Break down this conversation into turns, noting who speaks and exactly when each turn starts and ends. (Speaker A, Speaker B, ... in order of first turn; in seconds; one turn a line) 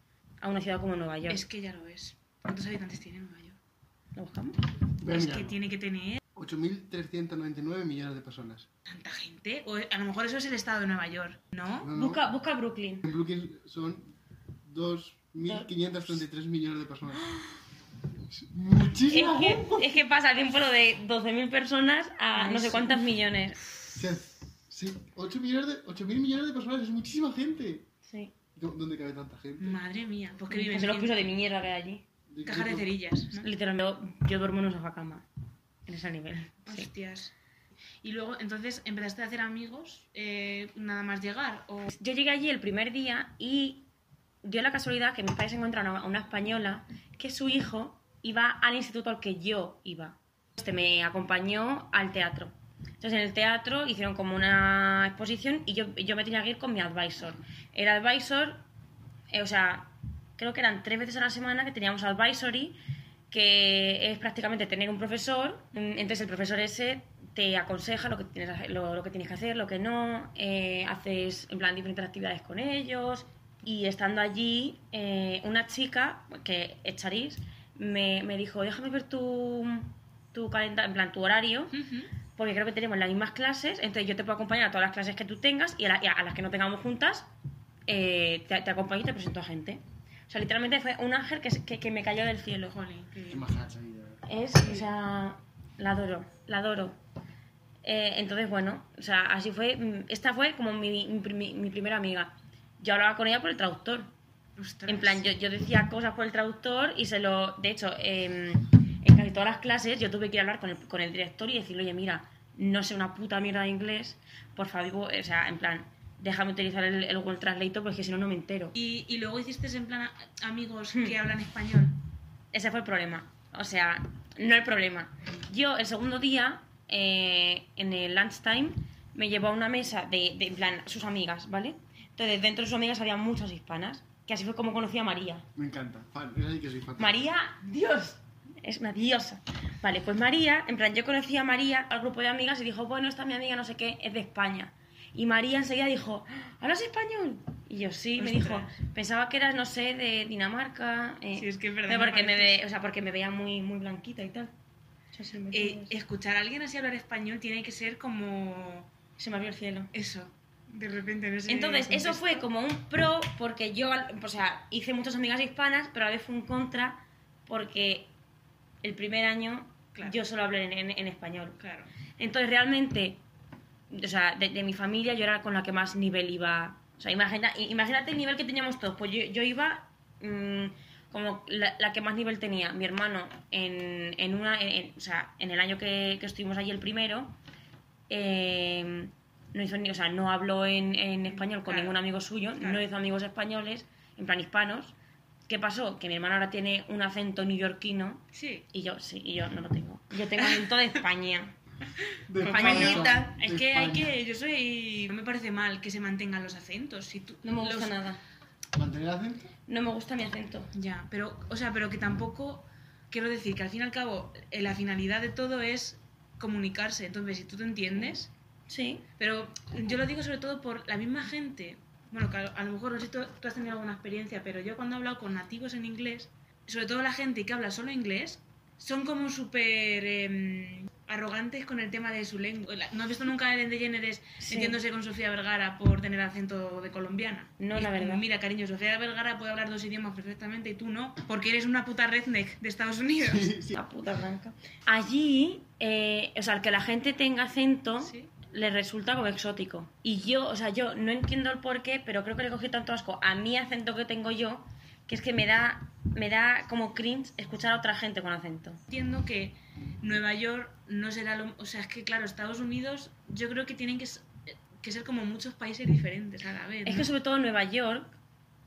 Speaker A: 0.4-1.4
Speaker B: 1.3-3.6
Speaker A: 4.2-4.6
Speaker C: 5.0-5.6
Speaker B: 5.1-6.2
Speaker C: 6.3-8.7
Speaker B: 8.9-11.9
Speaker C: 11.8-12.2
Speaker A: 11.9-13.0
Speaker C: 13.0-14.1
Speaker C: 14.7-17.3
Speaker A: 17.2-17.5
Speaker C: 18.3-20.0
Speaker A: 19.1-23.6
Speaker B: 22.4-23.0
Speaker C: 23.9-27.9
Speaker A: 28.1-28.3
Speaker C: 28.6-29.8
Speaker B: 29.6-31.2
Speaker A: 30.5-32.0
Speaker C: 32.3-32.9
Speaker B: 32.5-33.5
Speaker A: 33.3-35.3
Speaker A: 35.9-36.9
Speaker B: 36.6-37.3
Speaker B: 38.0-41.9
Speaker A: 41.9-43.9
Speaker A: 44.4-58.6
Speaker A: 59.3-62.8
Speaker A: 63.3-81.8
Speaker B: 81.7-82.1
Speaker A: 82.4-87.3
Speaker A: 87.9-92.8
Speaker B: 92.7-93.5
Speaker C: 93.3-94.2
Speaker A: 94.3-97.0
Speaker A: 97.8-104.1
Speaker B: 104.6-105.3
Speaker A: 104.9-118.8
Speaker B: 118.8-122.0
Speaker A: 122.5-135.5
Speaker C: 135.6-137.2
Speaker A: 137.0-154.5
Speaker B: 148.2-148.8
Speaker B: 151.3-152.6
Speaker A: 155.1-155.9
Speaker B: 155.5-158.9
Speaker A: 159.2-159.9
Speaker B: 159.9-162.5
Speaker A: 161.5-168.1
Speaker A: 168.8-171.6
Speaker B: 171.6-171.9
Speaker A: 172.2-173.2
Speaker A: 173.9-187.4
Speaker A: 188.1-194.9
Speaker B: 191.3-192.0
Speaker B: 192.6-192.8
Speaker A: 195.5-201.6
Speaker B: 198.3-198.7
Speaker C: 202.3-204.2
Speaker B: 202.4-208.0
Speaker A: 202.4-203.3
Speaker A: 207.4-208.2
Speaker C: 208.7-209.5
Speaker A: 209.7-210.7
Speaker B: 210.7-218.3
Speaker A: 218.7-219.1
Speaker B: 219.2-243.5
Speaker A: 234.4-234.8
Speaker A: 237.6-238.2
Speaker C: 243.2-243.8
Speaker A: 243.8-258.8
Speaker B: 248.0-248.3
Speaker B: 258.9-267.1
Speaker A: 266.9-268.2